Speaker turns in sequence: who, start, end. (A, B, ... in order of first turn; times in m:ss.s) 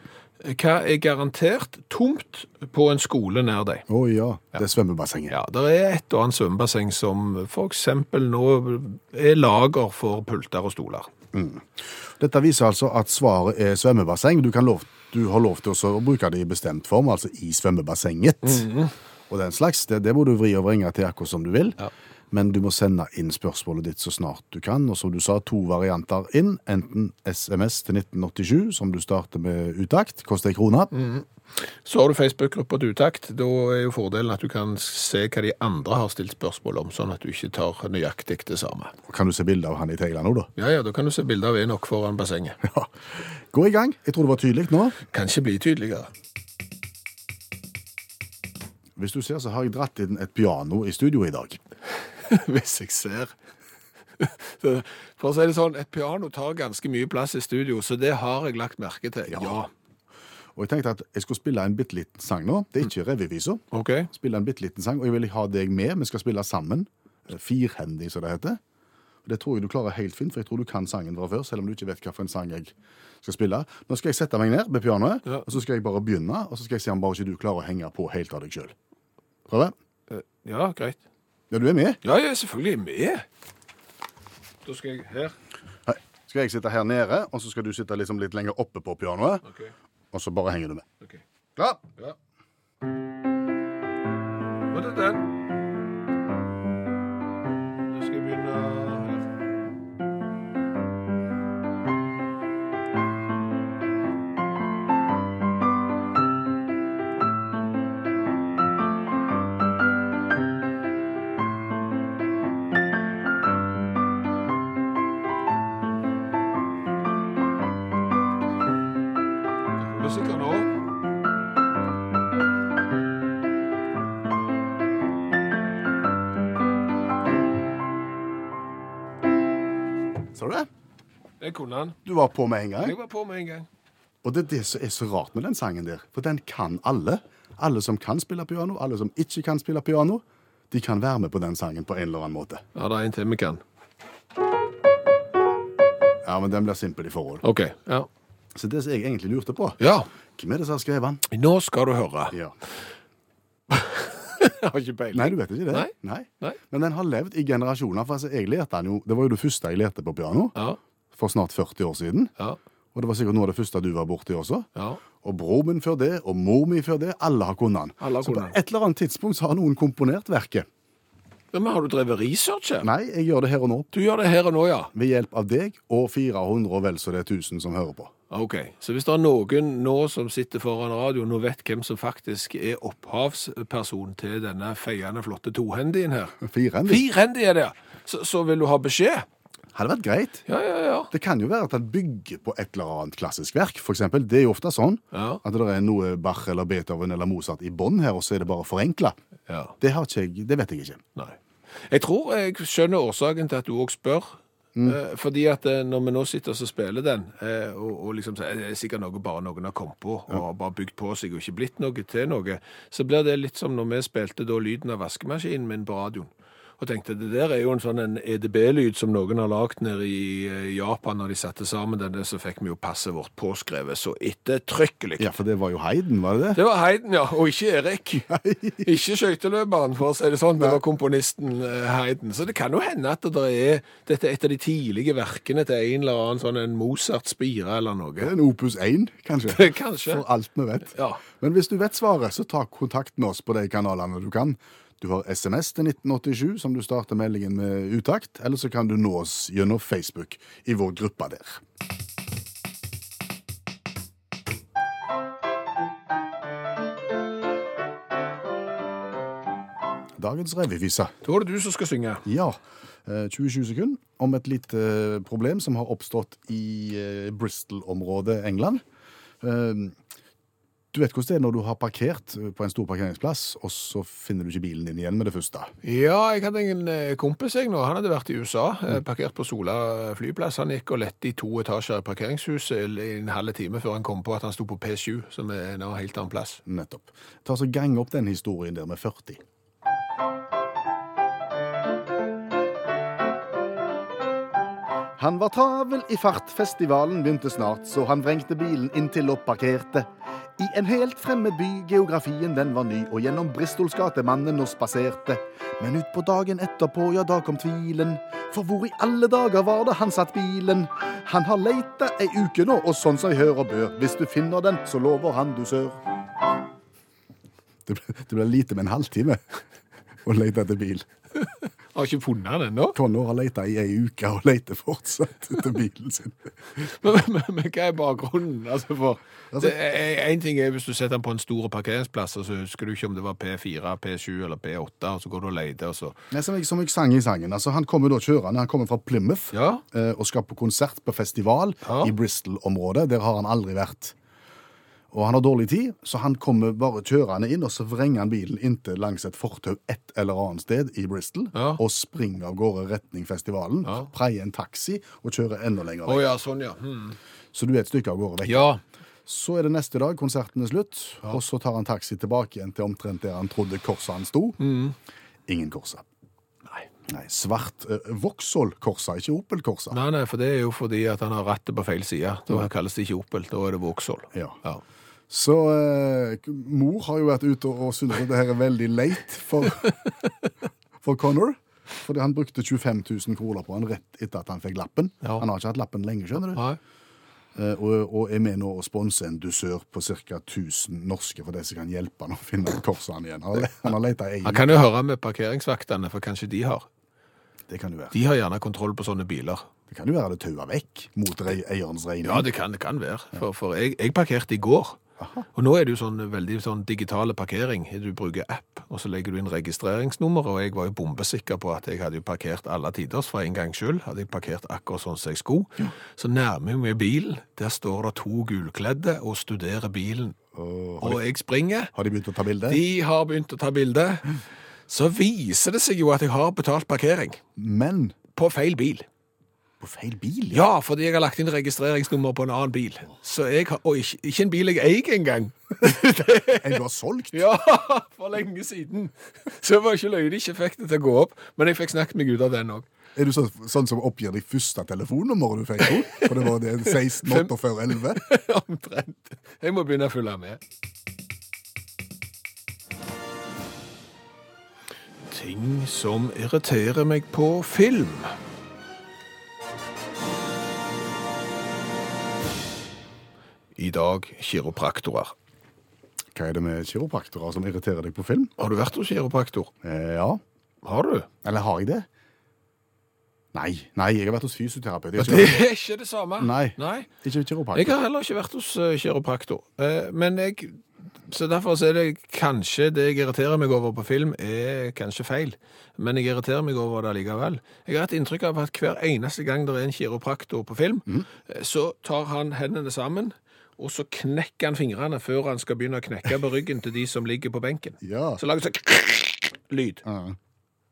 0:00.4-0:03.8 A
0:03.9-0:05.4 B
0:05.3-0:11.1 A
0:11.3-0:18.7 B
0:18.4-0:18.9 A
0:19.3-0:30.9 B
0:30.9-0:38.9 A
0:39.1-0:40.5 B
0:40.6-0:42.6 A
0:42.6-0:42.9 B
0:43.5-0:45.0 B
0:45.0-0:46.1 A
0:49.0-0:51.6 B
0:52.2-0:53.3 A
0:54.2-0:59.7 A
0:59.3-0:59.6 B
1:00.6-1:08.6 B
1:03.7-1:04.1 A
1:09.2-1:18.7 B
1:19.5-1:19.7 B
1:20.1-1:21.0 A
1:21.5-1:22.0 B
1:22.0-1:23.2 A
1:24.6-1:25.4 A
1:25.9-1:29.4 B
1:29.5-1:29.7 A
1:30.1-1:30.8 B
1:31.6-1:31.8 B
1:34.7-1:35.3 A
1:37.8-1:39.3 A
1:59.8-2:00.8 A
2:10.3-2:10.7 B
2:11.4-2:12.0 A
2:12.0-2:13.0 B
2:12.8-2:13.7 A
2:14.2-2:22.6 B
2:22.7-2:23.6 A
2:26.2-2:27.4 B
2:27.4-2:28.1 A
2:28.5-2:29.8 B
2:29.8-2:30.1 A
2:30.4-2:31.2 B
2:31.3-2:32.3 A
2:33.7-2:36.6 A
2:35.1-2:40.6 B
2:41.1-2:42.3 B
2:42.9-2:44.7 B
2:44.7-2:45.0 A
2:45.2-2:50.6 B
2:48.0-2:48.6 A
2:51.5-2:52.9 A
2:52.8-2:53.9 B
2:53.9-2:54.9 A
2:54.9-2:58.1 B
2:58.3-3:09.2 A
3:06.4-3:07.0 B
3:09.7-3:10.4 B
3:10.5-3:11.1 A
3:11.1-3:19.1 B
3:15.1-3:15.4 A
3:19.5-3:19.7 A
3:19.8-3:21.0 B
3:21.9-3:45.3 A
3:45.2-3:46.6 B
3:46.5-3:58.3 A
3:48.3-3:48.9 B
3:58.2-4:11.6 B
3:59.5-4:00.2 A
4:00.9-4:01.2 A
4:20.2-4:21.1 B
4:21.2-4:22.2 A
4:22.2-4:28.8 B
4:29.4-4:30.0 B
4:30.9-4:35.7 B
4:35.8-4:46.6 A
4:46.7-4:49.4 B
4:55.2-5:16.0 B
5:17.8-5:19.4 B
5:20.2-5:21.1 B
5:21.6-5:23.0 A
5:22.9-5:26.5 B
5:26.8-5:36.2 A
5:29.5-5:29.8 B
5:36.3-5:44.1 B
5:39.5-5:39.8 A
5:41.8-5:42.1 A
5:45.1-5:56.3 B
5:51.5-5:51.8 A
5:56.0-5:57.2 A
5:57.5-5:58.7 B
5:58.4-5:58.8 A
5:59.2-6:04.6 B
6:04.6-6:05.0 A
6:05.5-6:06.0 B
6:07.1-6:10.0 B
6:09.9-6:14.8 A
6:14.3-6:14.6 B
6:15.3-6:19.9 B
6:21.0-6:26.7 B
6:26.5-6:26.8 A
6:27.6-6:34.7 B
6:34.4-6:36.9 A
6:37.7-6:38.2 B
6:38.1-6:39.6 A
6:39.9-6:42.5 B
6:42.2-6:45.0 A
6:45.5-7:00.4 A
7:00.5-7:01.2 B
7:01.0-7:01.9 A
7:01.9-7:02.8 B
7:02.7-7:07.4 A
7:07.6-7:08.2 B
7:08.3-7:09.0 A
7:09.8-7:10.7 B
7:10.5-7:16.8 A
7:16.5-7:17.5 B
7:17.3-7:22.9 A
7:23.2-7:28.2 B
7:25.8-7:30.6 A
7:35.3-7:38.3 A
7:43.8-7:45.3 A
7:46.3-7:48.5 B
7:48.6-7:49.7 A
7:49.8-7:50.4 B
7:50.8-7:51.3 A
7:51.4-7:52.1 B
7:53.5-7:55.6 B
7:55.2-7:57.1 A
7:56.4-7:57.9 B
7:57.7-8:20.0 A
8:18.0-8:18.4 B
8:20.0-8:20.4 B